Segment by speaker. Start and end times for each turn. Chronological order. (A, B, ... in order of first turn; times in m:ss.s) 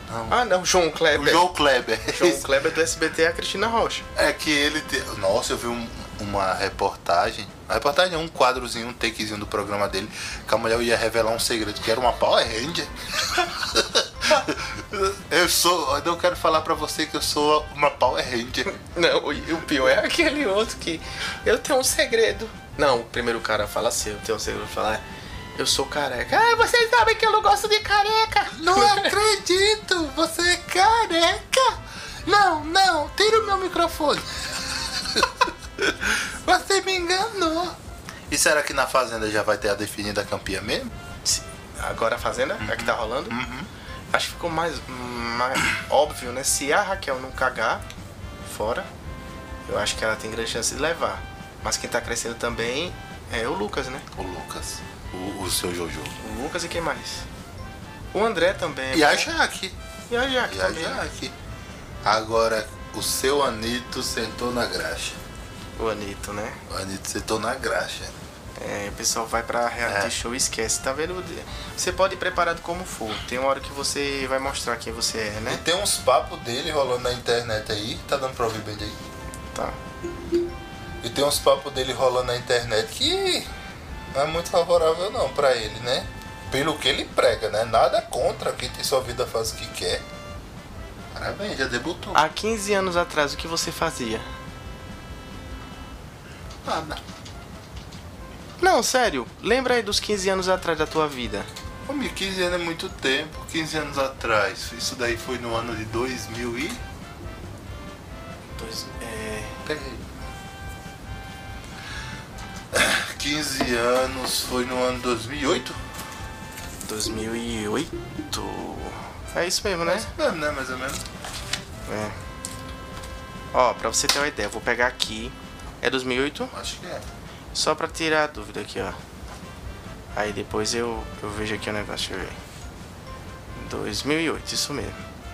0:00.1-0:00.4 A
0:00.3-0:01.5 B
0:01.1-0:02.5 A
0:02.1-0:04.0 B
0:04.2-0:18.7 A
0:18.7-0:25.0 B
0:25.6-0:29.2 B
0:28.5-0:37.8 A
0:38.3-0:40.9 A
0:41.2-0:43.4 B
0:42.6-0:43.7 A
0:44.1-0:47.8 B
0:48.4-0:48.9 B
0:49.7-0:54.1 B
0:54.2-0:56.2 A
0:56.2-0:57.2 B
0:58.1-0:59.3 B
0:58.9-0:59.8 A
1:00.1-1:01.0 B
1:00.4-1:01.4 A
1:02.0-1:05.2 A
1:05.8-1:06.6 B
1:06.7-1:08.2 A
1:08.6-1:15.6 B
1:09.8-1:10.1 A
1:15.5-1:19.0 A
1:19.5-1:19.8 B
1:21.0-1:23.5 A
1:24.1-1:30.0 A
1:31.1-1:32.2 A
1:32.1-1:34.3 B
1:36.6-1:37.0 A
1:38.6-1:41.5 B
1:41.9-1:46.8 A
1:48.6-1:49.6 B
1:49.6-1:50.1 A
1:52.7-1:55.8 A
1:56.8-2:00.1 B
1:59.8-2:01.0 A
2:01.9-2:02.2 B
2:03.5-2:06.5 B
2:06.5-2:07.1 A
2:07.5-2:09.0 B
2:10.2-2:12.4 B
2:13.6-2:15.0 B